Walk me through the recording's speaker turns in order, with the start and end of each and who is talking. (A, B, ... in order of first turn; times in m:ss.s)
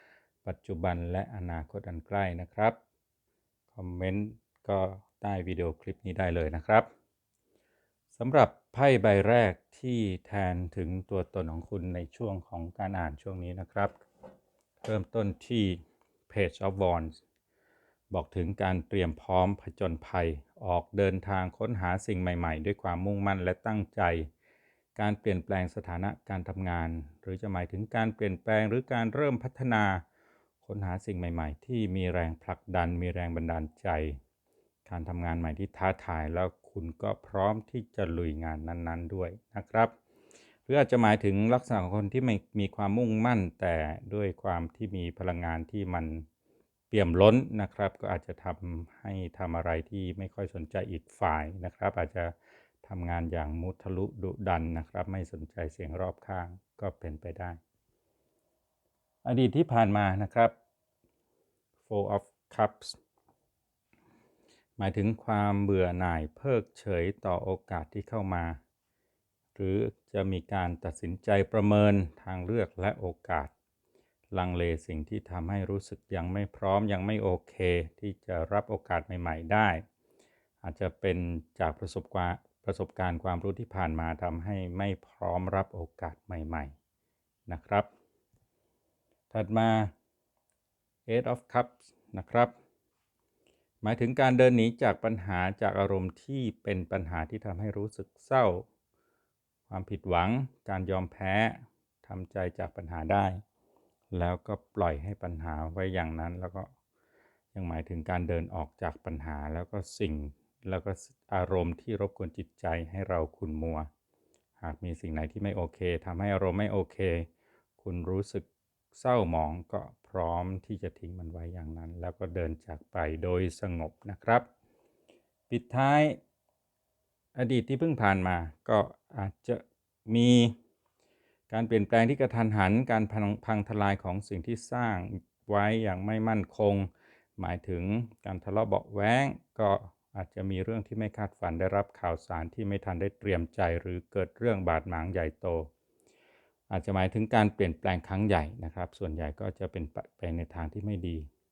0:00.4-0:02.8 A
0:03.7-0:06.9 A
0:08.1-0:14.0 A
0:14.8-0:17.2 A
0:18.1-0:24.3 A
0:25.0-0:30.0 A
0:30.6-0:34.2 A
0:34.8-0:39.9 A
0:40.7-0:46.2 A
0:46.9-0:57.6 A
0:59.2-1:00.5 A
1:01.8-1:03.0 A
1:04.8-1:08.6 A
1:09.6-1:13.5 A
1:14.3-1:19.8 A
1:20.6-1:26.7 A
1:27.5-1:27.9 A
1:29.3-1:29.9 A
1:31.1-1:32.5 A
1:33.8-1:38.6 A
1:39.7-1:43.4 A
1:44.1-1:46.7 A
1:47.5-1:53.9 A
1:54.6-1:57.3 A
1:57.8-2:04.5 A
2:05.5-2:06.2 A
2:07.3-2:10.5 A
2:11.5-2:25.7 A
2:26.7-2:31.3 A